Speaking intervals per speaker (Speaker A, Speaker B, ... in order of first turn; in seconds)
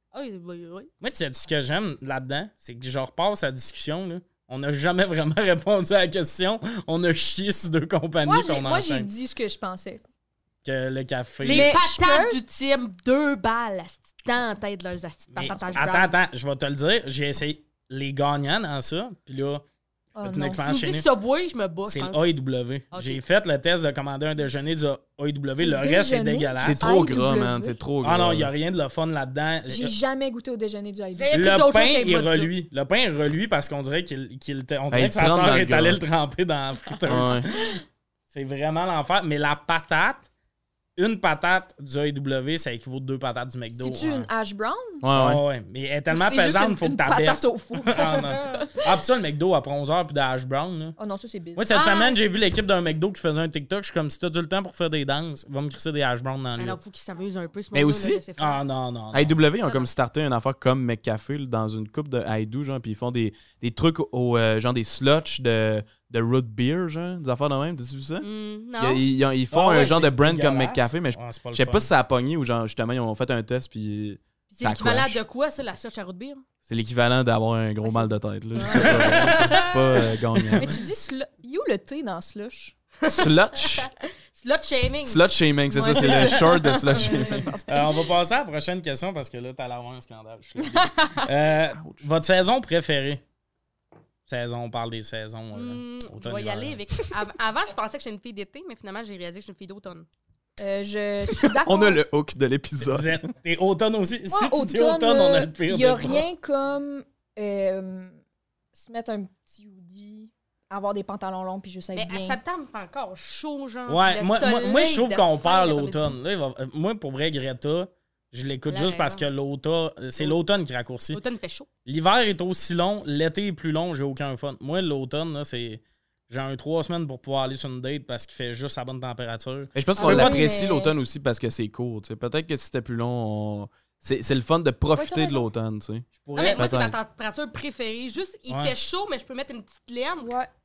Speaker A: 0.1-0.9, 11.4-16.1, 20.6-22.3, 22.9-23.2, 31.1-32.5, 48.0-48.6, 56.6-58.6, 59.6-59.9, 68.2-69.0, 74.5-76.4, 78.5-80.1, 83.0-85.2, 85.9-86.3, 86.9-87.3, 95.5-100.0, 111.9-116.1, 118.7-119.2, 121.1-121.7, 136.3-140.3
Speaker B: 1.0-9.1, 10.6-11.7, 15.3-19.6, 20.2-21.1, 21.8-26.9, 28.0-29.9, 31.3-37.8, 38.3-40.3, 41.0-44.3, 45.1-51.0, 51.5-56.8, 58.4-59.4, 69.5-71.9, 78.7-79.6, 87.7-93.2, 94.3-96.8, 102.8-106.2, 113.9-121.2, 121.8-130.4, 136.2-136.7, 138.5-138.7
Speaker C: 8.2-10.0, 11.4-12.4, 20.1-20.9, 25.6-27.8, 29.7-31.6, 43.7-45.0, 46.1-48.8, 51.0-52.1, 77.8-79.7, 80.5-82.8, 85.7-88.0, 90.6-91.2, 100.6-102.0, 104.3-108.2, 108.7-112.4, 130.0-131.0, 134.9-135.5, 140.2-140.5
Speaker D: 26.6-28.5, 34.9-36.0, 37.0-37.5, 45.0-45.4, 57.7-58.2, 59.1-68.2, 68.8-75.2, 76.7-80.8, 83.0-83.9, 85.0-87.5, 91.8-92.0, 101.6-103.2, 129.7-137.0